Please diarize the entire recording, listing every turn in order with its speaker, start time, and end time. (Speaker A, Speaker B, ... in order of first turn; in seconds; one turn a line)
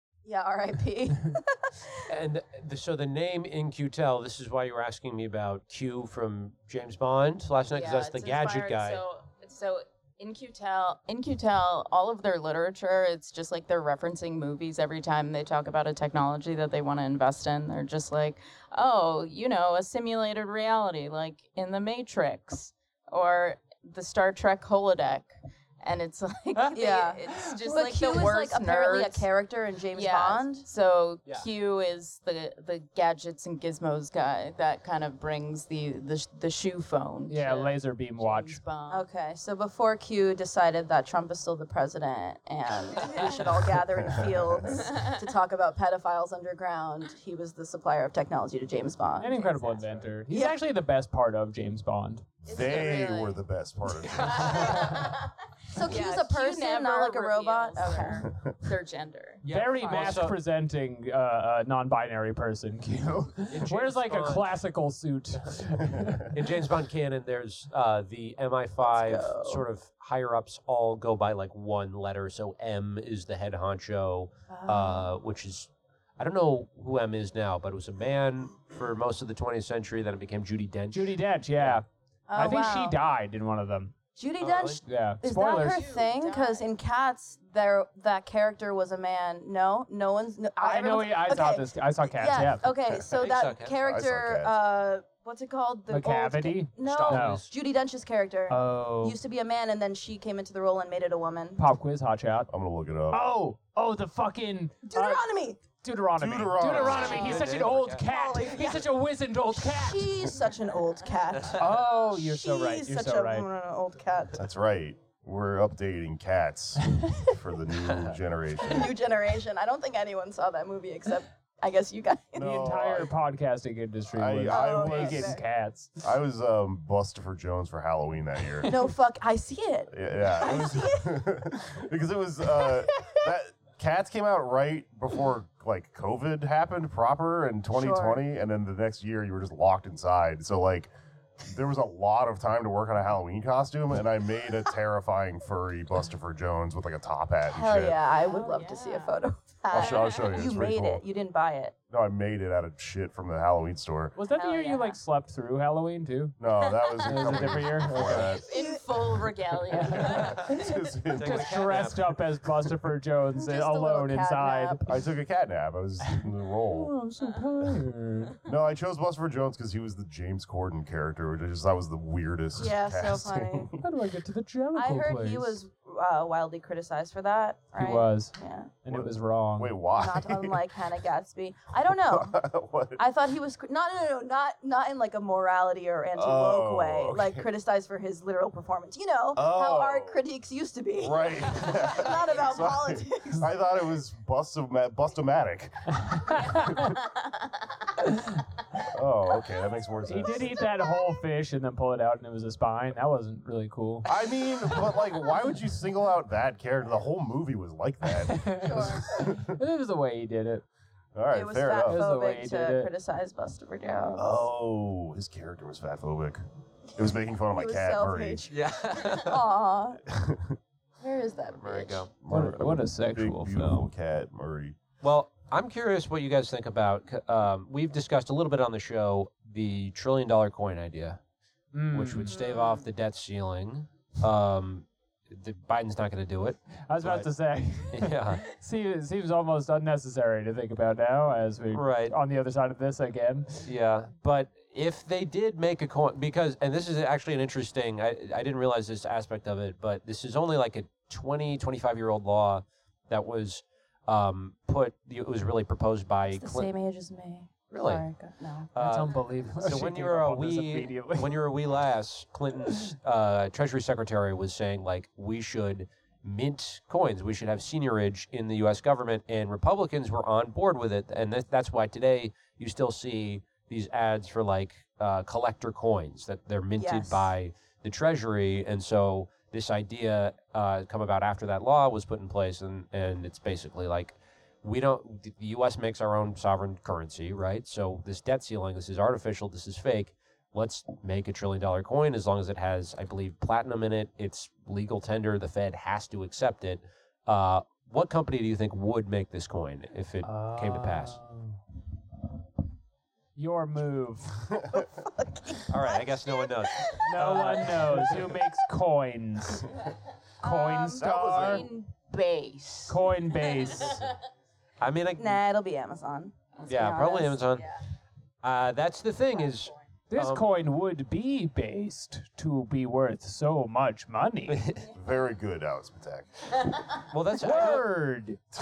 Speaker A: 0.2-1.9
Speaker B: 2.1-9.0
Speaker C: 7.7-29.3
Speaker A: 26.7-30.6
Speaker D: 27.3-27.6
Speaker C: 29.9-39.0
Speaker D: 37.3-38.6
Speaker A: 38.9-49.5
Speaker C: 43.0-43.4
Speaker E: 44.0-44.8
Speaker C: 44.7-45.2
Speaker D: 49.2-52.3
Speaker C: 49.3-49.8
Speaker A: 50.3-50.6
Speaker C: 52.4-53.4
Speaker E: 52.5-54.9
Speaker C: 54.0-60.1
Speaker A: 55.7-58.3
Speaker B: 59.4-60.4
Speaker D: 59.4-66.3
Speaker B: 63.5-64.5
Speaker B: 66.3-81.8
Speaker A: 68.8-69.6
Speaker A: 74.5-75.1
Speaker D: 80.9-83.9
Speaker A: 82.3-83.0
Speaker A: 84.2-101.6
Speaker B: 84.4-84.8
Speaker D: 84.8-85.9
Speaker C: 85.5-86.7
Speaker D: 90.6-92.7
Speaker E: 92.6-94.6
Speaker B: 93.1-93.7
Speaker D: 95.9-97.4
Speaker B: 96.8-97.5
Speaker D: 98.5-99.2
Speaker D: 101.6-102.5
Speaker E: 102.5-103.2
Speaker D: 103.1-110.3
Speaker A: 104.9-105.6
Speaker E: 106.2-107.5
Speaker B: 106.7-108.1
Speaker A: 108.0-108.9
Speaker A: 109.5-114.4
Speaker D: 111.5-113.5
Speaker E: 114.4-118.9
Speaker A: 118.6-122.5
Speaker E: 122.3-123.1
Speaker D: 122.4-126.0
Speaker E: 124.1-125.4
Speaker A: 124.5-125.4
Speaker E: 126.0-128.7
Speaker A: 128.6-131.2
Speaker E: 129.9-140.9
Speaker A: 132.5-133.2
Speaker A: 137.7-138.2
Speaker E: 141.4-148.0
Speaker A: 147.5-151.7
Speaker C: 148.2-149.2
Speaker E: 149.7-151.0
Speaker C: 149.8-150.3
Speaker E: 151.9-154.1
Speaker D: 154.2-156.4
Speaker A: 154.3-154.9
Speaker E: 156.4-158.6
Speaker C: 156.8-157.3
Speaker D: 157.0-158.3
Speaker C: 158.2-160.8
Speaker A: 158.5-158.8
Speaker D: 159.7-164.9
Speaker E: 159.9-161.9
Speaker B: 161.1-162.1
Speaker A: 163.4-164.9
Speaker E: 164.8-166.9
Speaker D: 166.0-168.4
Speaker E: 168.4-173.8
Speaker A: 172.6-173.7
Speaker D: 173.8-175.6
Speaker A: 174.7-178.7
Speaker D: 177.8-179.8
Speaker E: 178.9-180.8
Speaker A: 179.9-182.3
Speaker E: 181.9-183.0
Speaker A: 183.0-193.5
Speaker E: 186.1-187.5
Speaker E: 189.3-190.2
Speaker E: 191.0-196.6
Speaker D: 196.1-196.9
Speaker C: 196.6-197.1
Speaker D: 198.0-198.3
Speaker E: 198.9-200.6
Speaker D: 200.0-204.1
Speaker E: 204.1-209.6
Speaker D: 208.2-210.6
Speaker C: 208.7-209.0
Speaker A: 208.7-209.0
Speaker E: 211.1-212.0
Speaker A: 211.3-214.4
Speaker D: 211.8-212.9
Speaker E: 214.1-216.4
Speaker E: 216.9-218.5
Speaker A: 217.5-220.0
Speaker B: 218.5-219.4
Speaker E: 220.1-220.6
Speaker A: 221.0-222.1
Speaker B: 221.6-222.1
Speaker E: 222.2-224.8
Speaker D: 222.3-223.9
Speaker B: 225.0-231.2
Speaker D: 231.7-232.4
Speaker B: 231.9-237.3
Speaker D: 236.9-243.7
Speaker B: 237.9-238.4
Speaker B: 241.7-242.2
Speaker B: 243.6-256.7
Speaker A: 256.3-258.7
Speaker B: 257.7-258.0
Speaker B: 258.7-301.2
Speaker D: 258.8-261.4
Speaker A: 276.8-277.3
Speaker D: 300.2-301.6
Speaker D: 303.4-304.5
Speaker E: 304.5-304.8
Speaker A: 304.7-307.0
Speaker B: 305.7-308.3
Speaker D: 307.0-309.7
Speaker D: 310.4-311.7
Speaker A: 310.4-310.9
Speaker C: 310.9-314.1
Speaker E: 310.9-311.7
Speaker D: 312.9-314.1
Speaker B: 314.8-315.4
Speaker A: 315.2-317.4
Speaker B: 316.6-317.7
Speaker B: 318.4-320.4
Speaker C: 319.4-319.7
Speaker D: 320.1-324.6
Speaker B: 324.5-324.9
Speaker E: 324.9-326.6
Speaker B: 327.1-327.9
Speaker D: 327.4-328.4